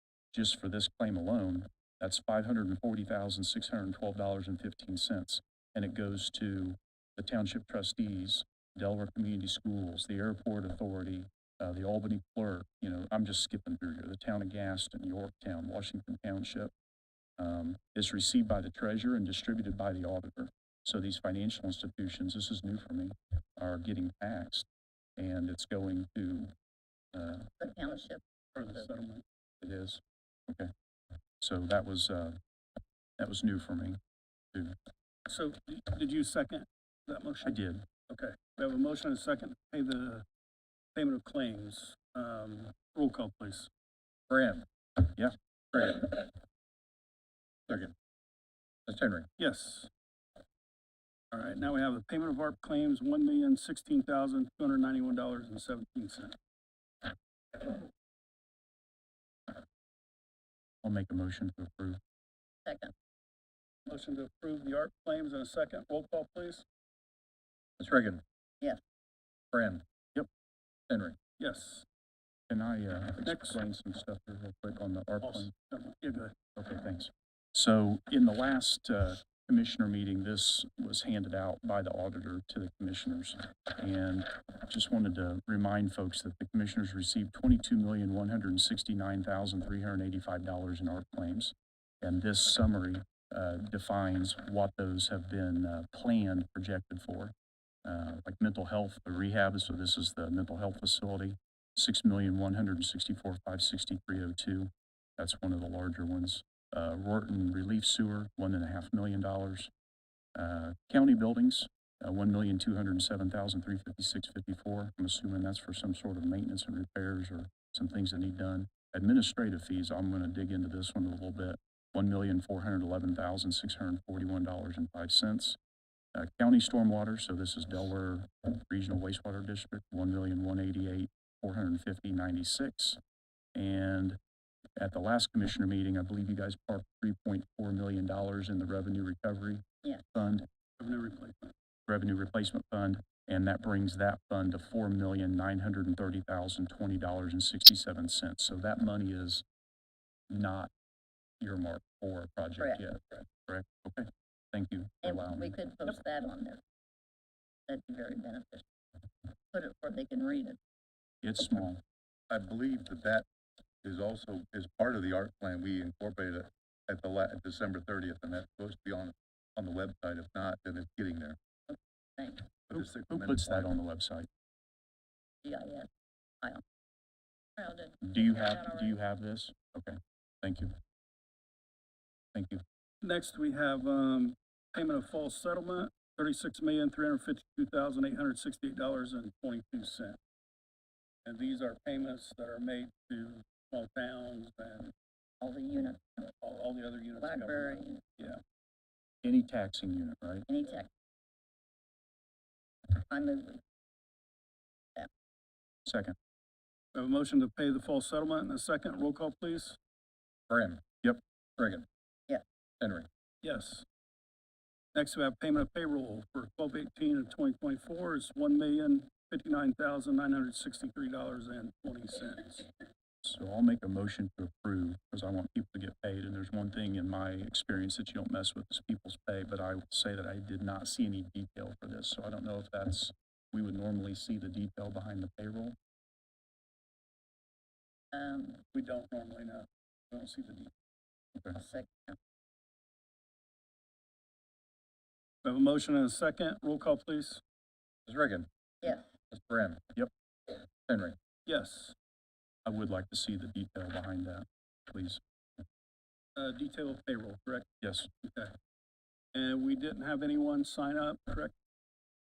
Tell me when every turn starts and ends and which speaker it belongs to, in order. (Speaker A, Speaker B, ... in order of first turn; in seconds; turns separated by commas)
Speaker A: 0.3-16.7, Speaker A: 17.4-26.5, Speaker A: 27.1-27.5, Speaker B: 27.6-28.9, Speaker C: 28.6-29.2, Speaker A: 29.6-30.7, Speaker A: 31.4-32.4, Speaker A: 33.2-34.0, Speaker C: 35.3-40.3, Speaker A: 37.4-37.9, Speaker C: 41.0-43.7, Speaker D: 44.3-44.7, Speaker A: 45.0-45.4, Speaker D: 45.7-46.3, Speaker D: 47.7-47.9, Speaker D: 48.9-49.3, Speaker C: 49.4-49.9, Speaker C: 51.3-56.4, Speaker A: 60.8-62.0, Speaker B: 62.6-62.9, Speaker C: 63.9-66.6, Speaker D: 67.8-68.2, Speaker D: 69.5-69.8, Speaker D: 70.9-71.2, Speaker C: 71.4-71.8, Speaker A: 72.5-75.5, Speaker C: 73.2-73.6, Speaker C: 75.2-76.3, Speaker A: 76.6-109.7, Speaker A: 110.3-125.6, Speaker A: 126.1-133.0, Speaker A: 133.6-134.2, Speaker A: 134.8-140.5, Speaker C: 140.8-141.5, Speaker A: 141.9-149.4, Speaker A: 150.3-150.7, Speaker A: 151.4-155.5, Speaker B: 155.0-156.6, Speaker B: 157.7-158.7, Speaker B: 159.5-160.6, Speaker A: 161.2-161.8, Speaker D: 162.3-163.3, Speaker D: 163.8-171.4, Speaker B: 171.7-172.5, Speaker D: 172.7-173.7, Speaker A: 172.7-174.3, Speaker B: 175.4-175.9, Speaker B: 177.6-179.0, Speaker A: 178.0-180.8, Speaker A: 182.3-182.6, Speaker C: 183.0-190.2, Speaker C: 191.2-194.9, Speaker B: 195.4-196.3, Speaker C: 196.4-198.4, Speaker B: 197.2-198.0, Speaker A: 199.2-200.5, Speaker B: 200.5-200.9, Speaker B: 202.9-203.6, Speaker A: 205.9-206.2, Speaker C: 206.9-209.8, Speaker D: 210.5-210.8, Speaker D: 211.6-211.9, Speaker D: 212.8-213.1, Speaker C: 213.4-213.8, Speaker C: 214.9-222.7, Speaker A: 223.2-235.8, Speaker B: 238.1-238.7, Speaker C: 238.7-240.7, Speaker B: 241.5-242.2, Speaker C: 245.4-247.4, Speaker D: 248.1-248.5, Speaker D: 249.3-249.9, Speaker D: 250.9-251.2, Speaker C: 251.5-251.9, Speaker A: 252.7-255.2, Speaker C: 256.4-257.7, Speaker A: 257.8-258.1, Speaker C: 258.2-258.6, Speaker C: 259.3-261.5